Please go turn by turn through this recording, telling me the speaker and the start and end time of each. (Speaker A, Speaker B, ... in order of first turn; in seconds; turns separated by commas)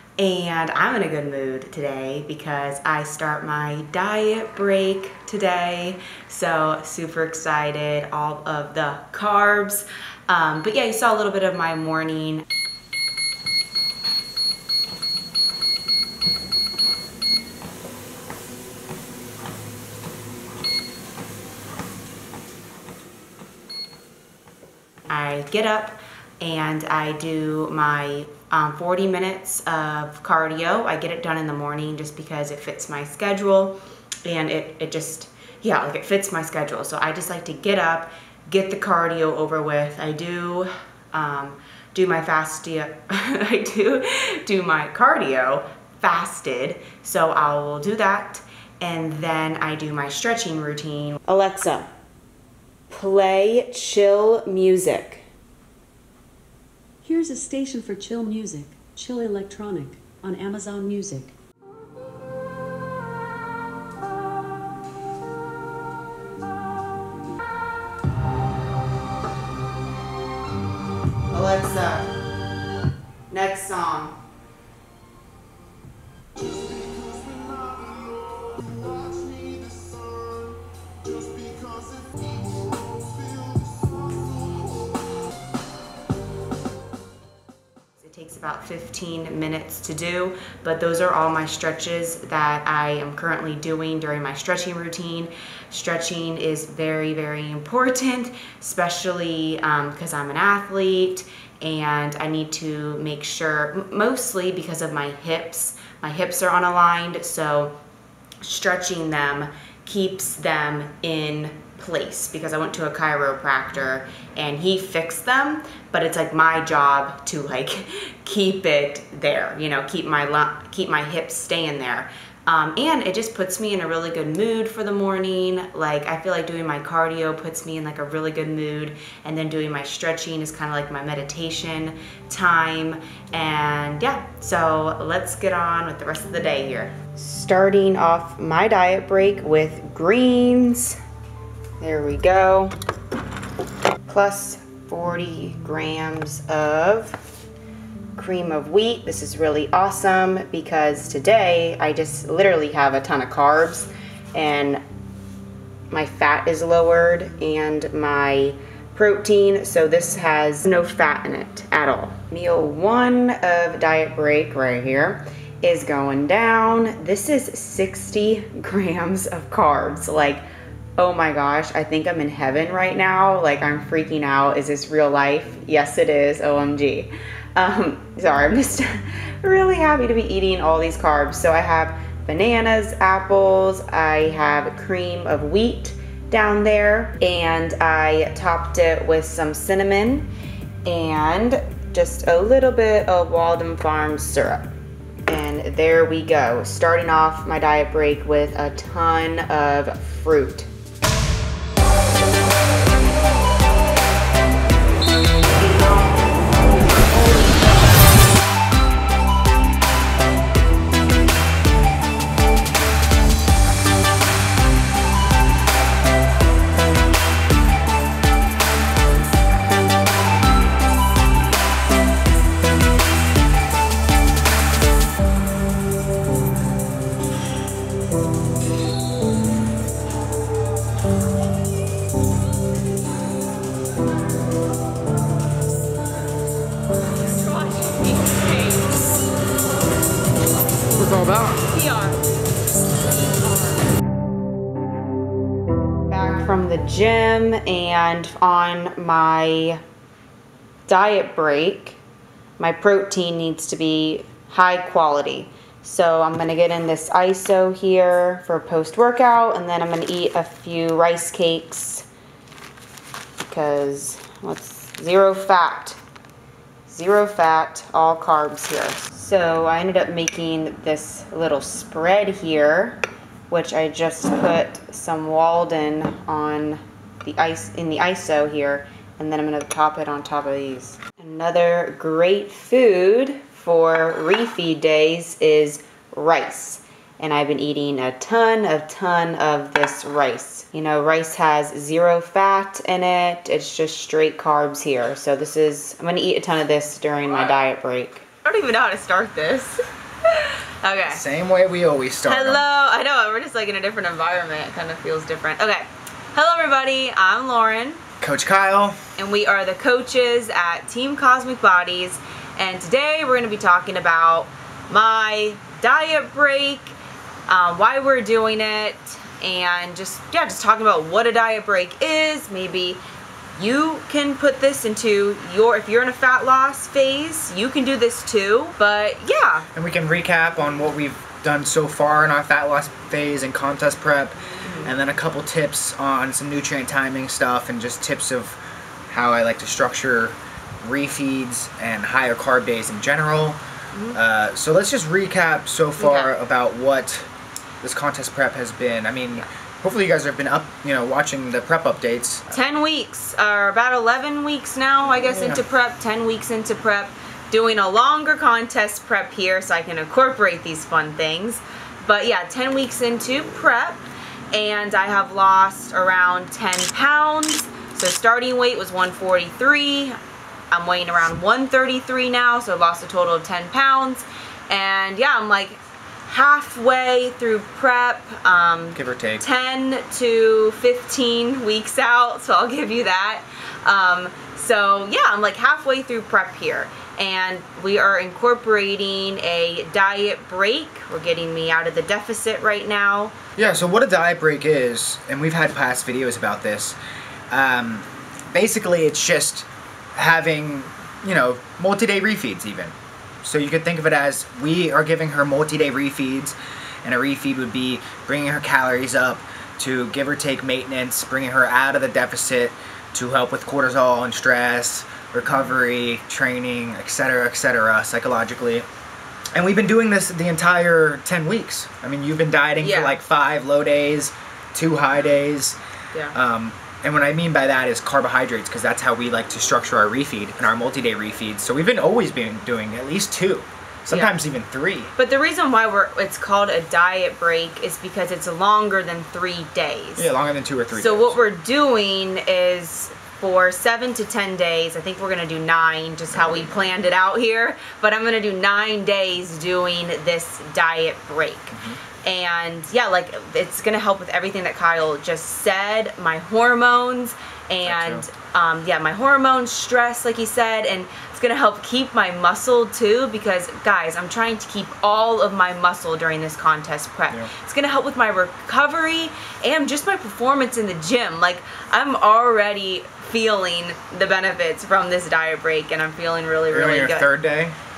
Speaker A: 0.2-12.4, Speaker A: 25.1-51.9, Speaker A: 52.9-55.2, Speaker B: 57.0-61.3, Speaker A: 71.3-72.1, Speaker A: 73.3-74.2, Speaker B: 77.1-80.2, Speaker B: 81.1-82.0, Speaker B: 83.6-84.0, Speaker A: 88.0-107.8, Speaker A: 108.4-141.0, Speaker A: 141.8-142.7, Speaker A: 144.1-147.2, Speaker A: 148.2-154.8, Speaker A: 155.9-170.4, Speaker A: 171.0-190.3, Speaker A: 190.8-194.7, Speaker A: 195.3-200.7, Speaker A: 205.6-207.1, Speaker A: 237.1-239.0, Speaker B: 241.1-241.4, Speaker A: 241.5-242.2, Speaker A: 246.1-249.8, Speaker A: 250.9-252.0, Speaker A: 252.6-262.1, Speaker A: 263.4-266.0, Speaker A: 266.9-301.2, Speaker C: 301.1-302.6, Speaker A: 302.2-308.0, Speaker C: 308.2-309.0, Speaker A: 309.2-316.9, Speaker A: 317.5-323.0, Speaker A: 323.6-329.7, Speaker C: 329.7-338.6, Speaker A: 334.6-334.9, Speaker C: 339.1-343.6, Speaker C: 344.1-347.3, Speaker A: 346.0-346.3, Speaker C: 347.8-352.5, Speaker A: 352.5-370.2, Speaker C: 355.3-355.6, Speaker A: 370.7-393.3, Speaker C: 378.9-379.4, Speaker C: 393.6-397.0, Speaker C: 397.5-418.9, Speaker C: 419.5-425.8, Speaker A: 422.8-423.2, Speaker C: 426.3-435.1, Speaker A: 434.1-434.4, Speaker A: 435.2-440.3, Speaker C: 440.2-441.4, Speaker A: 440.9-477.3, Speaker C: 451.7-452.0, Speaker C: 457.8-458.3, Speaker C: 476.7-477.8